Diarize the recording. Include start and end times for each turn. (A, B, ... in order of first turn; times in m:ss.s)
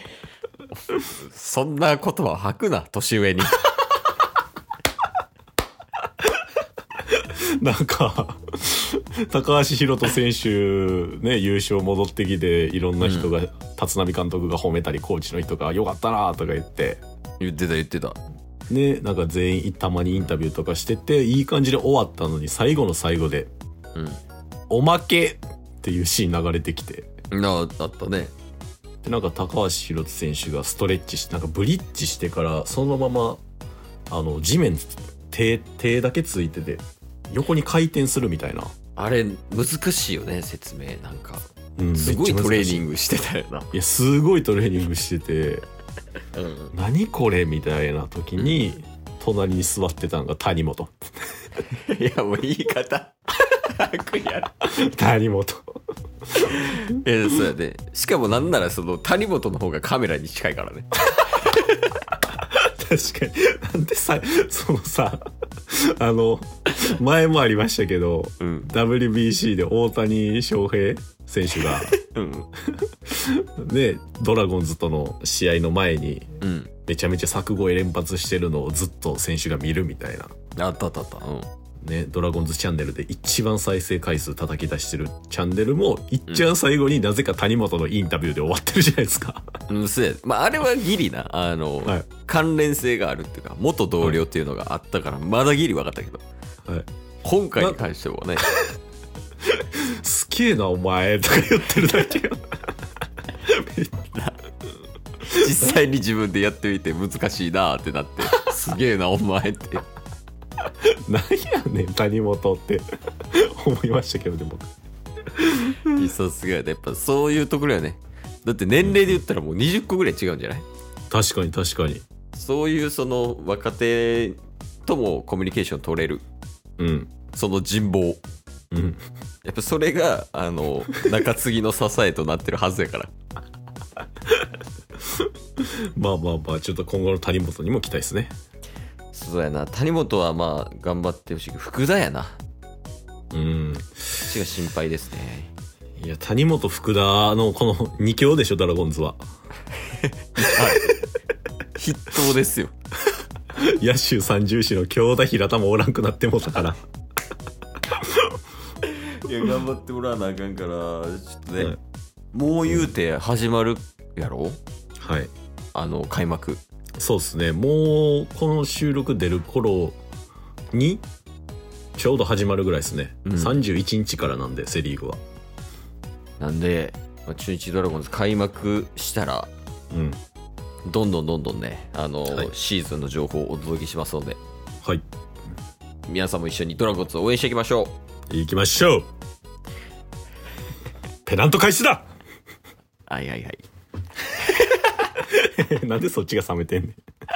0:00.9-0:03.7 A
0:07.1-0:17.0 B
0:13.0-0:13.3 A
0:17.4-0:18.2 A
0:18.7-0:23.5 B
0:23.9-0:24.2 A
0:24.7-0:27.1 B
0:27.3-0:28.3 A
0:29.0-0:33.4 B
0:34.1-0:38.7 B
0:39.0-0:43.7 A
0:41.8-0:42.8 B
0:43.7-0:45.6 B
0:46.3-0:46.7 A
0:46.7-0:51.5 B
0:51.7-0:54.7 A
0:54.6-0:55.7 B
0:56.3-0:56.8 B
0:56.4-1:01.6 A
1:01.2-1:01.4 B
1:02.1-1:11.9 B
1:08.4-1:08.7 A
1:11.7-1:12.5 A
1:12.7-1:20.3 B
1:16.4-1:16.7 A
1:20.6-1:21.5 A
1:21.8-1:29.4 B
1:29.7-1:36.2 A
1:37.2-1:38.5 A
1:39.4-1:42.7 B
1:43.3-1:44.0 B
1:45.2-1:49.8 A
1:50.6-1:54.7 B
1:55.3-1:56.1 B
1:55.8-2:00.6 A
2:01.1-2:02.0 B
2:02.3-2:06.2 A
2:06.8-2:07.1 B
2:07.3-2:08.2 A
2:08.7-2:09.0 B
2:09.4-2:13.1 A
2:15.0-2:18.3 B
2:19.1-2:22.4 A
2:23.3-2:24.2 B
2:24.2-2:25.5 A
2:26.0-2:29.2 B
2:29.9-2:31.0 A
2:30.4-2:31.0 B
2:31.8-2:32.7 A
2:33.5-2:36.8 B
2:37.9-2:38.3 B
2:38.8-2:41.8 A
2:42.3-2:44.6 A
2:45.0-2:45.3 B
2:45.7-2:46.6 A
2:47.0-2:50.0 B
2:50.7-2:51.0 B
2:52.0-2:55.2 B
2:53.2-2:53.6 A
2:56.4-2:59.5 A
2:59.9-3:00.2 B
3:00.8-3:04.4 A
3:06.1-3:07.9 A
3:08.3-3:09.1 B
3:11.2-3:12.1 B
3:13.1-3:13.6 A
3:15.1-3:17.0 B